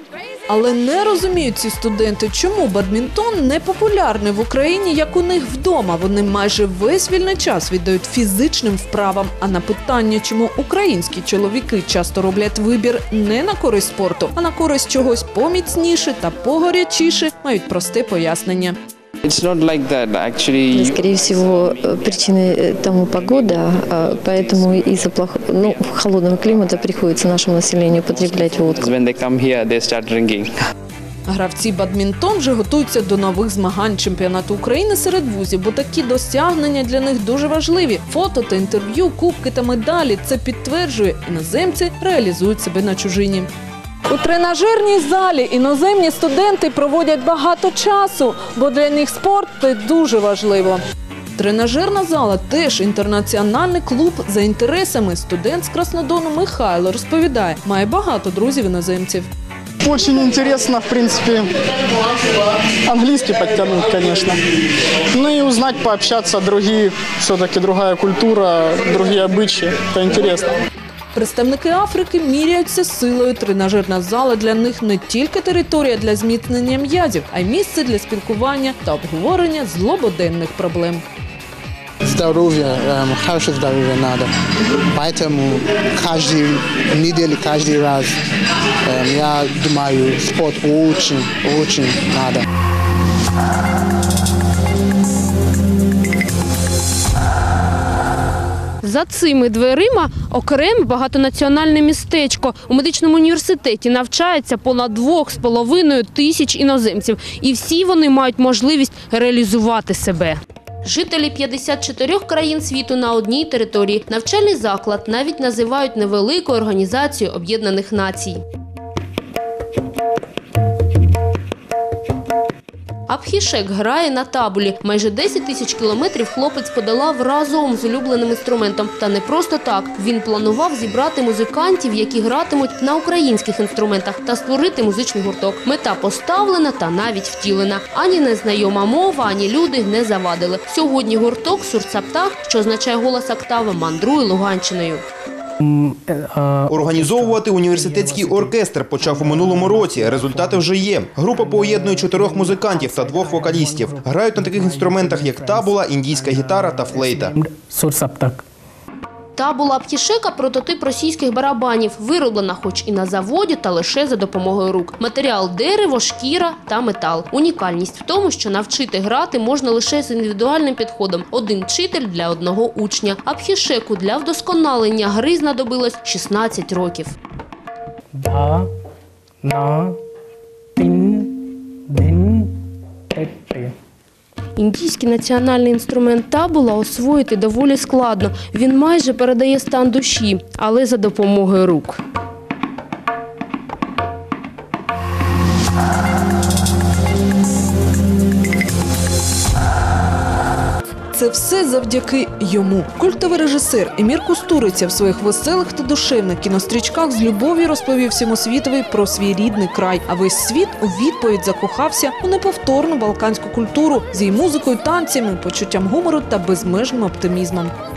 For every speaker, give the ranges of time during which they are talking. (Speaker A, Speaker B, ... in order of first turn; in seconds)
Speaker A: 0.5-18.8, 31.3-43.5, 44.1-50.8, 51.4-59.3, 71.2-81.0, 201.1-217.7
Speaker B: 19.2-21.0, 28.8-30.5
Speaker C: 20.7-28.9
Speaker D: 59.8-61.5, 62.9-64.4, 65.1-70.5
Speaker E: 82.0-84.3, 84.9-88.2, 88.8-92.5
Speaker F: 98.8-118.4, 123.1-145.0, 159.4-177.2, 184.6-192.0
Speaker G: 145.6-150.7, 151.3-158.4, 178.1-178.7, 179.4-180.0, 180.8-182.6, 183.1-183.7
Speaker H: 146.7-157.4